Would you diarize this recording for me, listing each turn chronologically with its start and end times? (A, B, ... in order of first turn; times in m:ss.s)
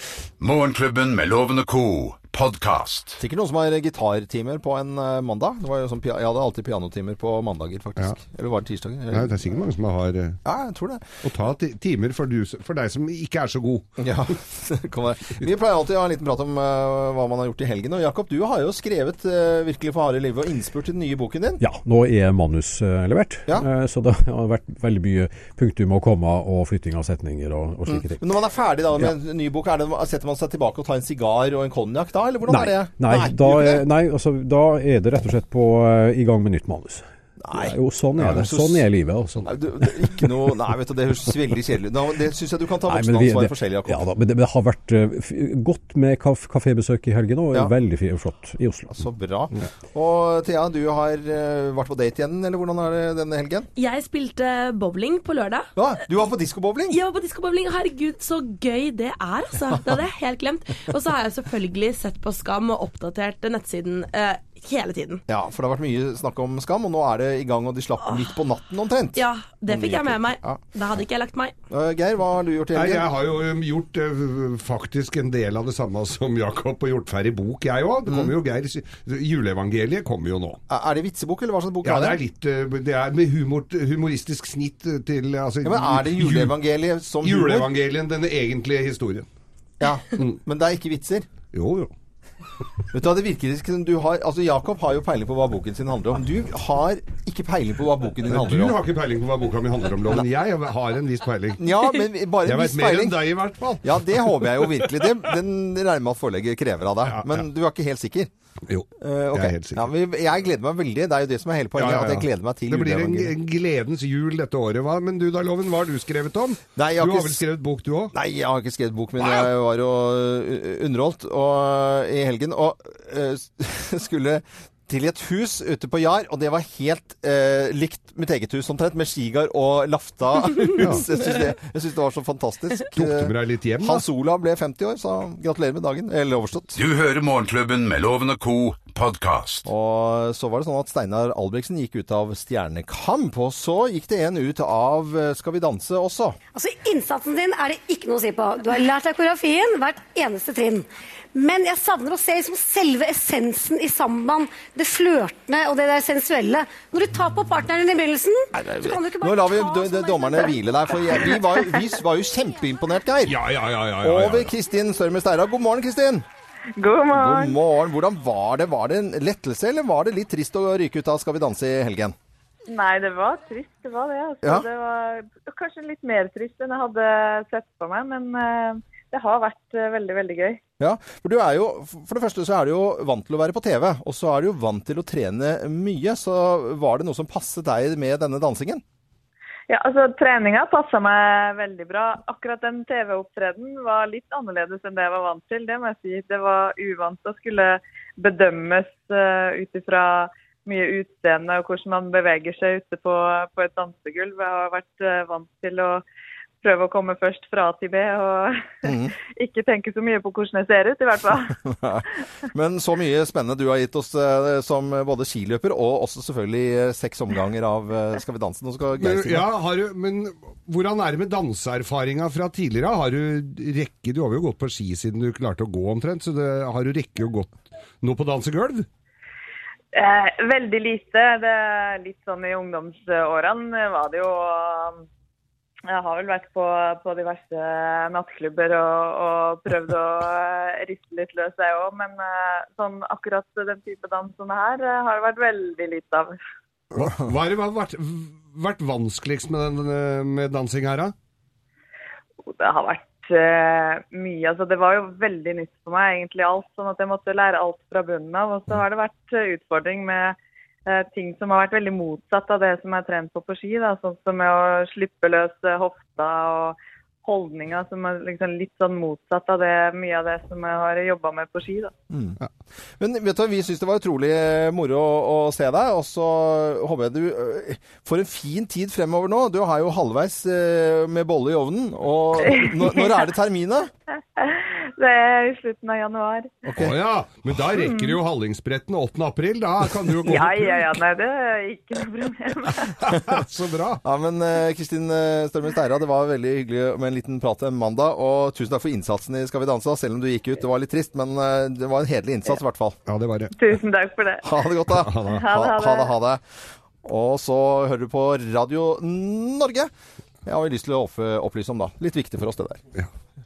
0:00.4-0:03.2 A
0:03.2-0:09.5 B
0:09.1-0:10.4 C
0:10.4-0:11.0 B
0:11.2-0:14.0 C
0:14.0-0:21.6 B
0:21.6-0:28.2 D
0:27.9-0:33.8 B
0:32.5-0:40.3 D
0:37.4-0:38.8 B
0:38.2-0:38.4 C
0:39.5-0:44.0 B
0:42.8-0:48.9 D
0:48.9-0:53.7 B
0:53.8-0:55.7 E
0:55.8-0:57.0 B
0:56.9-1:05.2 E
1:05.3-1:10.6 B
1:09.1-1:11.5 E
1:11.7-1:13.1 B
1:12.7-1:20.6 C
1:18.0-1:18.3 B
1:20.7-1:22.2 B
1:21.8-1:26.5 C
1:25.6-1:27.7 B
1:27.2-1:29.3 C
1:29.8-1:31.3 B
1:31.5-1:31.9 C
1:32.9-1:38.8 B
1:38.3-1:41.6 C
1:41.6-1:43.2 B
1:42.4-1:44.7 C
1:43.8-1:48.3 B
1:47.0-1:47.4 C
1:48.7-1:49.8 C
1:49.0-1:53.3 B
1:51.8-1:58.1 C
1:56.8-1:57.4 B
1:58.1-2:16.8 B
1:59.2-1:59.5 C
2:10.8-2:11.0 C
2:12.9-2:14.0 C
2:16.7-2:19.7 A
2:19.6-2:26.4 B
2:26.5-2:40.5 F
2:38.5-2:43.4 B
2:43.2-2:44.5 C
2:44.0-2:46.2 B
2:46.8-2:47.6 G
2:47.1-2:52.1 B
2:52.7-3:00.6 G
3:00.8-3:08.8 B
3:09.7-3:26.0 G
3:26.6-3:31.6 G
3:28.8-3:29.1 B
3:31.5-3:39.5 B
3:39.0-3:48.9 C
3:49.9-3:55.0 G
3:55.9-4:06.4 G
4:06.9-4:11.1 C
4:12.5-4:31.9 G
4:32.1-4:32.4 B
4:33.0-4:43.9 B
4:42.4-4:43.3 G
4:44.4-4:46.6 G
4:46.7-4:47.0 B
4:46.8-4:50.9 C
4:47.8-4:48.2 G
4:50.2-4:52.9 G
4:53.0-4:54.0 C
4:54.0-5:03.0 B
5:03.1-5:03.5 C
5:03.6-5:04.7 G
5:04.4-5:06.4 B
5:05.0-5:05.4 C
5:05.3-5:06.1 G
5:07.0-5:09.9 B
5:10.4-5:12.8 B